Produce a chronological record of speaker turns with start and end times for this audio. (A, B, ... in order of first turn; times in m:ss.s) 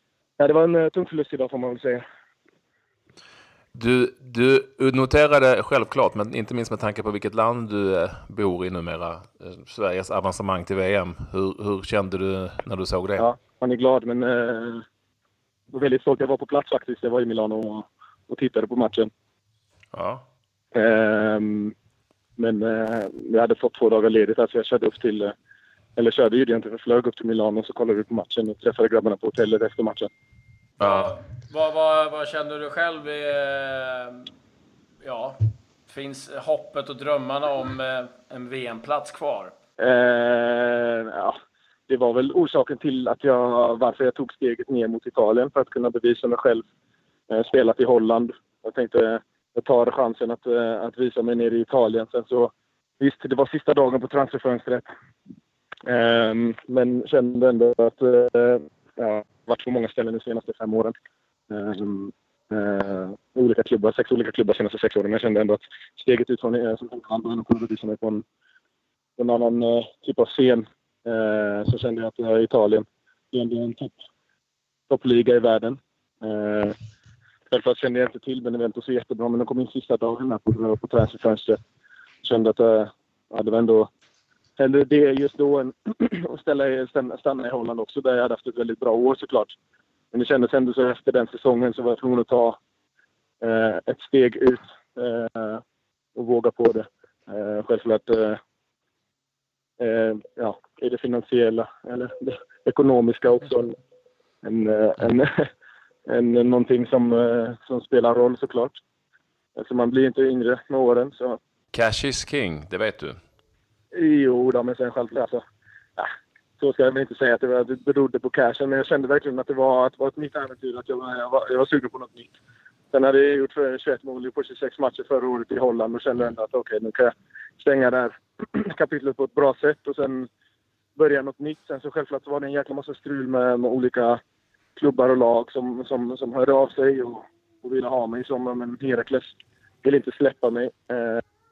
0:00.4-0:02.0 A
0:03.8-0:13.3 B
0:13.2-0:14.8 A
0:15.7-0:19.1 A
0:19.9-0:20.2 B
0:20.7-0:21.7 A
0:22.4-0:25.3 A
0:26.0-0:30.1 A
0:30.8-0:34.3 C
0:30.8-0:31.1 B
0:35.0-0:39.5 C
0:39.8-0:41.4 A
0:41.9-0:46.6 A
0:47.3-0:54.9 A
0:55.9-1:00.9 A
1:01.5-1:08.2 A
1:09.2-1:13.9 A
1:14.9-1:16.8 A
1:17.5-1:21.6 A
1:22.2-1:23.9 A
1:24.6-1:29.6 A
1:30.1-1:32.6 A
1:33.4-1:35.6 A
1:36.1-1:38.4 A
1:39.8-1:43.7 A
1:44.4-1:45.4 A
1:46.1-1:48.8 A
1:49.6-1:51.4 A
1:51.7-1:53.2 B
1:53.9-1:55.4 A
1:56.6-2:02.3 A
2:02.9-2:10.3 A
2:11.0-2:14.2 A
2:14.8-2:21.2 A